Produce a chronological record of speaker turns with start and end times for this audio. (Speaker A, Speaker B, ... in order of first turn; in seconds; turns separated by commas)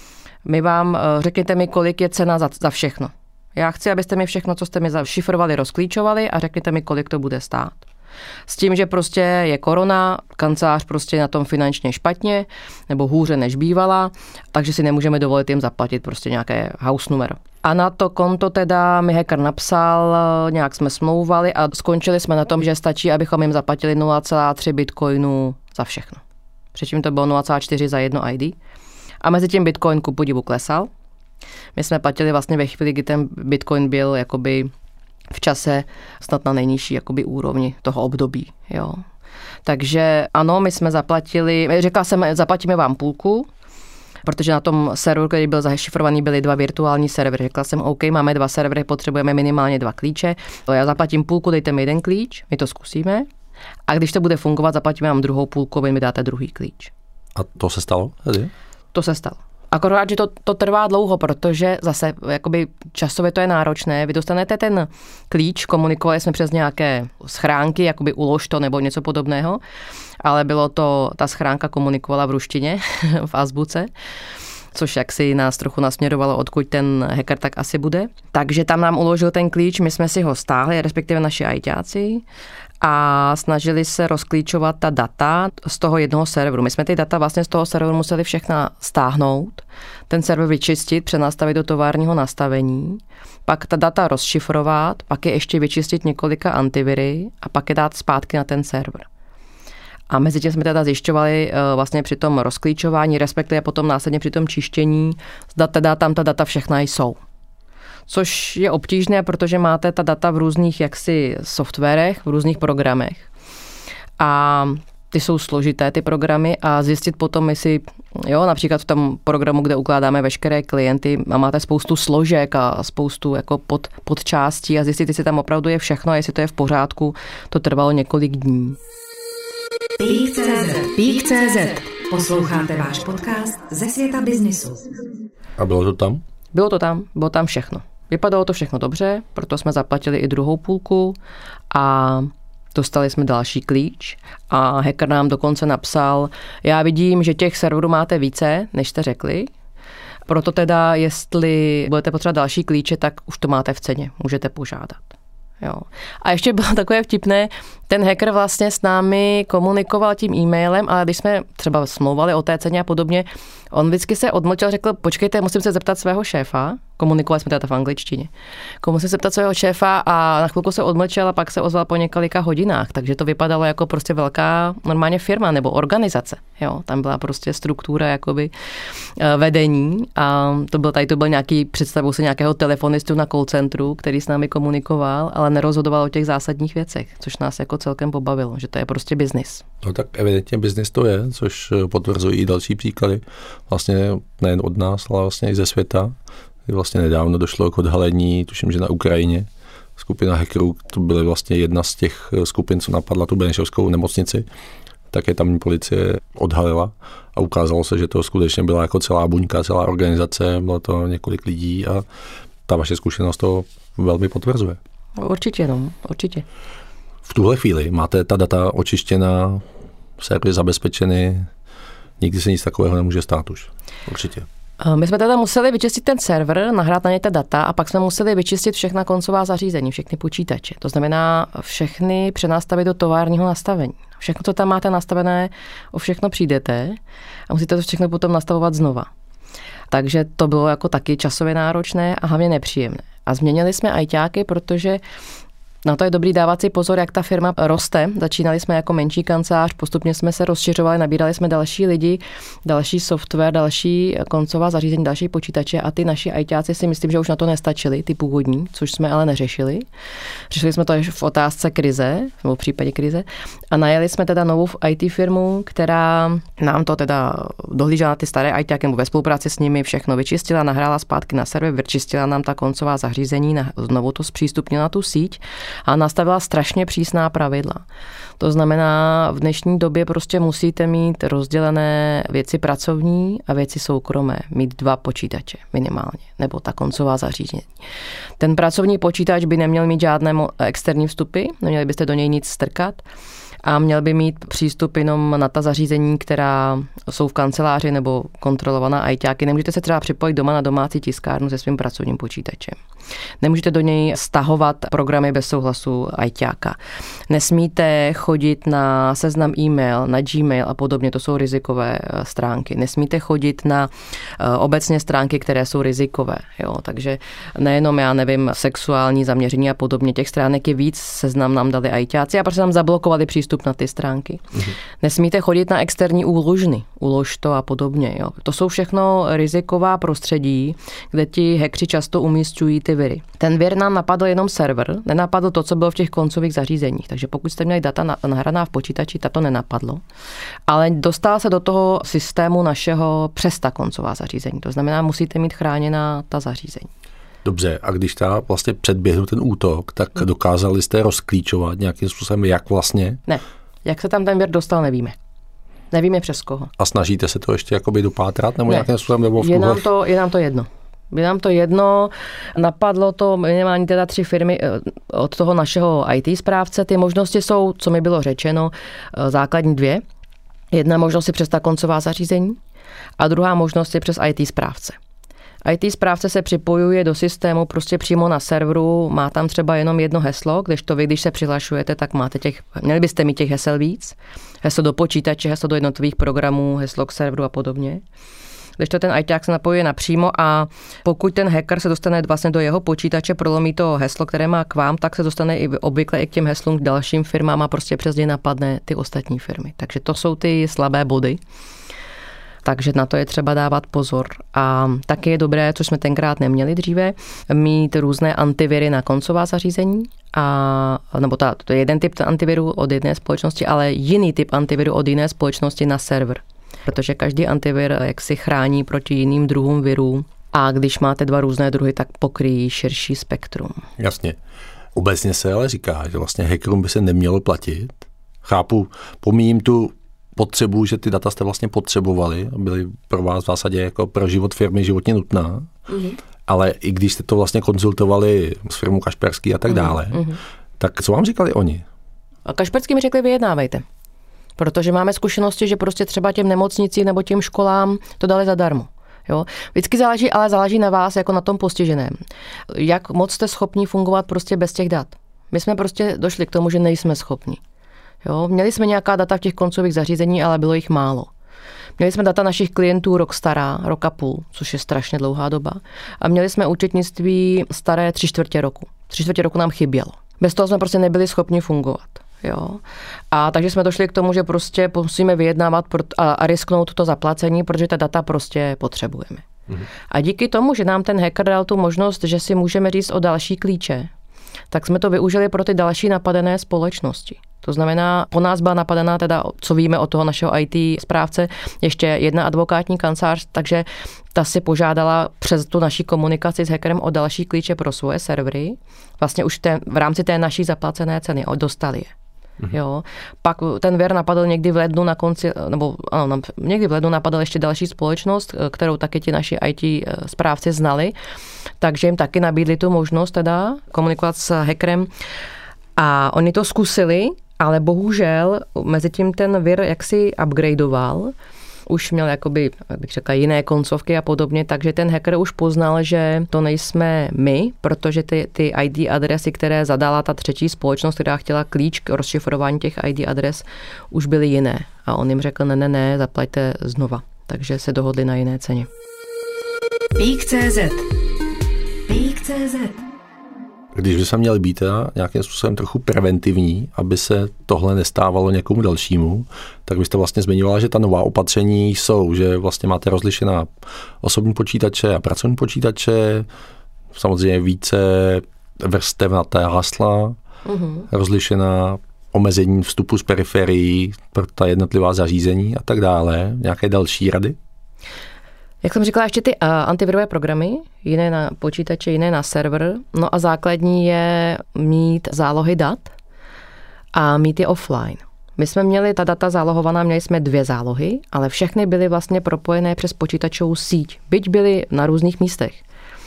Speaker A: 0.5-7.8, Speaker A: 8.5-26.2, Speaker A: 26.7-28.6, Speaker A: 29.2-30.9, Speaker A: 31.8-34.7, Speaker A: 35.3-39.0, Speaker A: 39.6-43.5, Speaker A: 44.3-53.3, Speaker A: 53.9-56.9, Speaker B: 57.4-58.5, Speaker A: 58.9-69.6, Speaker A: 70.2-73.9, Speaker A: 74.7-82.2, Speaker A: 82.8-99.1, Speaker A: 100.1-107.2, Speaker A: 108.1-113.3, Speaker A: 114.2-128.8, Speaker C: 130.0-134.9, Speaker B: 135.6-136.2, Speaker A: 136.5-141.2, Speaker A: 141.7-149.5, Speaker A: 150.3-168.3, Speaker A: 168.8-178.5, Speaker A: 179.2-189.7, Speaker B: 189.8-196.1, Speaker B: 196.7-204.5, Speaker B: 205.1-212.0, Speaker B: 212.7-214.8, Speaker A: 215.2-216.4, Speaker B: 217.2-219.7, Speaker B: 220.2-221.5, Speaker B: 222.2-224.5, Speaker A: 224.8-239.1, Speaker A: 239.9-245.0, Speaker A: 245.8-259.9, Speaker A: 260.5-277.9, Speaker A: 278.4-287.7, Speaker A: 288.4-293.0, Speaker A: 293.6-302.8, Speaker A: 303.4-306.8, Speaker A: 307.3-324.5, Speaker A: 325.0-340.0, Speaker A: 340.7-346.9, Speaker B: 347.4-353.2, Speaker A: 353.3-355.2, Speaker A: 355.9-356.7, Speaker B: 356.8-359.9, Speaker A: 359.4-370.0, Speaker A: 370.7-372.6, Speaker A: 373.2-375.0, Speaker A: 375.6-388.0, Speaker A: 388.8-401.4, Speaker A: 402.6-423.9, Speaker B: 424.0-424.4, Speaker B: 424.9-435.7, Speaker A: 435.9-436.2, Speaker B: 436.5-440.3, Speaker A: 439.7-440.4, Speaker B: 440.8-441.9, Speaker A: 442.5-443.9, Speaker A: 444.6-452.2, Speaker A: 452.7-457.6, Speaker A: 458.2-461.3, Speaker A: 462.0-479.5, Speaker A: 480.1-484.1, Speaker A: 484.7-502.1, Speaker A: 502.7-511.1, Speaker A: 511.8-515.1, Speaker A: 516.0-521.3, Speaker A: 521.9-538.9, Speaker C: 540.1-541.1, Speaker C: 542.1-543.1, Speaker B: 543.9-553.7, Speaker B: 554.2-556.5, Speaker B: 557.1-560.4, Speaker A: 560.7-561.1, Speaker B: 561.1-567.6, Speaker A: 568.8-576.1, Speaker A: 577.1-585.8